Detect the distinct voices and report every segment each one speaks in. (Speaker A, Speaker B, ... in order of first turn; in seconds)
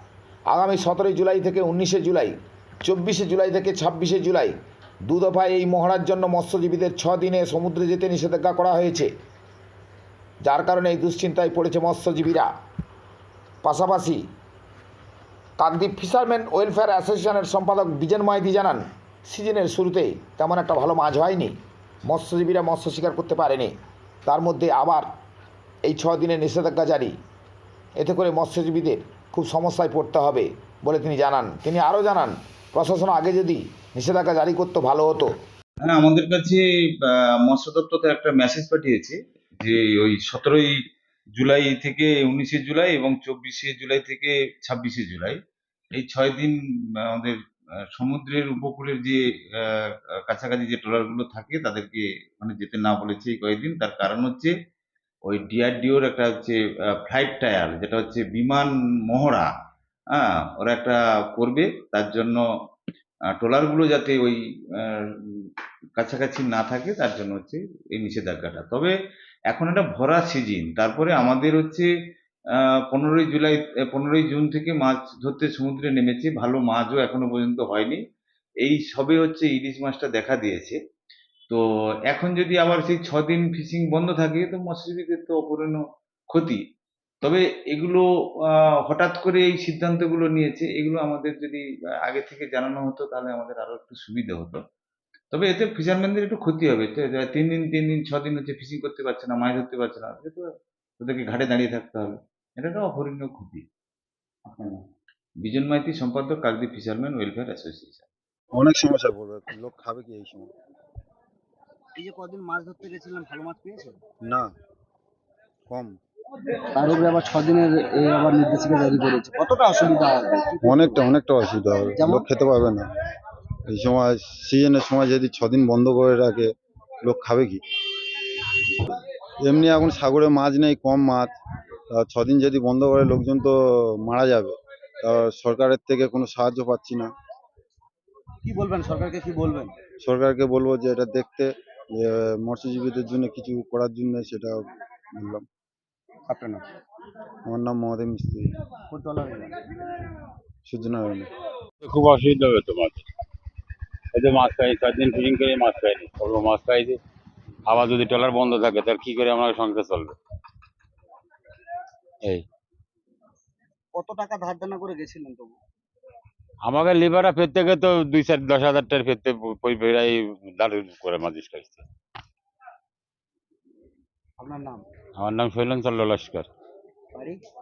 Speaker A: 0.5-4.5, 5.1-9.1, 10.4-12.5, 13.6-14.2, 15.6-21.6, 22.1-23.7, 24.2-25.1, 25.9-27.1, 28.0-35.4
Speaker B: 35.8-40.7, 41.4-45.4, 45.9-47.4, 48.0-54.5, 55.3-59.5, 60.1-62.4, 63.4-68.9, 69.5-71.9, 72.5-78.0, 78.6-80.8, 81.5-86.6, 87.2-94.6, 95.3-100.4, 101.0-103.6, 104.5-104.8, 105.4-108.1
Speaker C: 108.5-110.5, 114.2-114.5, 115.7-116.0, 120.6-122.9, 123.7-126.5, 127.0-127.6, 129.4-131.3, 131.9-137.1, 140.0-145.4, 147.4-148.5, 150.6-151.3
Speaker D: 111.9-114.0, 116.7-121.0, 122.0-122.2, 138.4-139.8, 146.3-146.6, 148.9-149.6, 163.9-165.6, 174.4-174.8, 177.1-177.4
Speaker E: 151.8-153.0, 154.1-157.0, 157.7-160.2, 166.6-171.8, 175.2-176.5